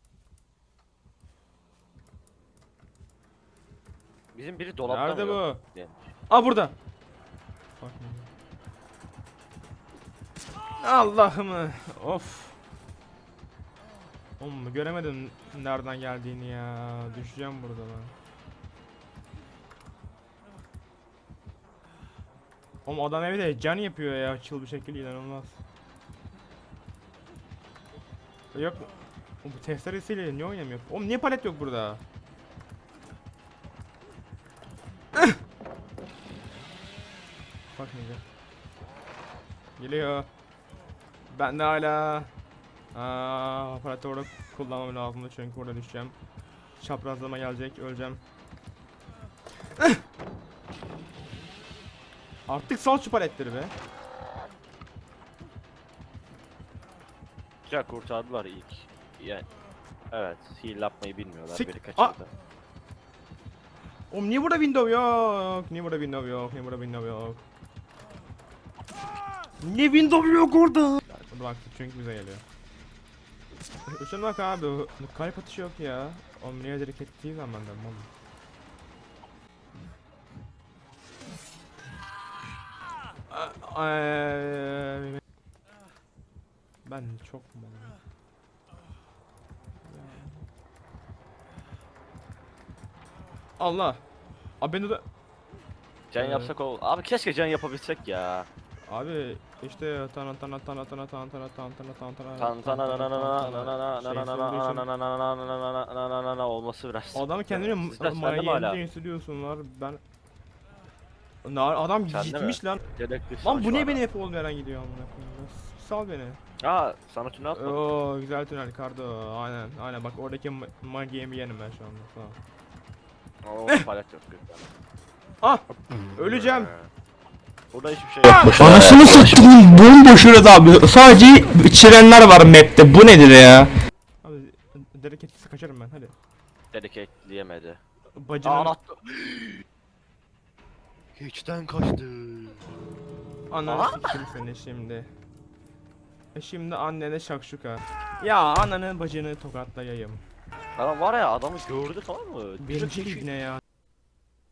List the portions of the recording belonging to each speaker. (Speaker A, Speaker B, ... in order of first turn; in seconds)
Speaker A: 4.3-6.0, 57.7-59.5, 60.1-62.3, 96.1-98.5, 102.4-108.8, 112.1-114.0, 116.6-117.8, 123.5-124.7, 126.2-126.9, 127.7-129.8, 136.7-137.8, 138.4-139.6, 141.2-142.7, 143.7-144.2, 150.8-153.3
Speaker B: 4.9-5.6, 6.3-6.7, 7.8-8.3, 10.8-12.6, 14.4-18.1, 22.9-25.6, 28.5-28.9, 29.4-32.0, 37.7-38.2, 39.8-40.3, 41.3-42.3, 42.9-46.1, 46.8-48.2, 52.5-53.7, 61.5-62.2, 64.1-67.4, 69.6-72.4, 73.9-78.1, 83.3-85.2, 86.9-88.0, 89.8-90.4, 93.6-94.0, 94.6-95.0, 96.2-96.5, 98.9-104.8, 107.1-110.0, 111.4-112.8, 113.4-116.4, 117.5-122.4, 126.2-126.7, 128.2-129.0, 134.2-136.2, 138.2-138.7, 143.5-145.1, 146.3-150.2, 152.6-153.6
Speaker C: 128.4-133.7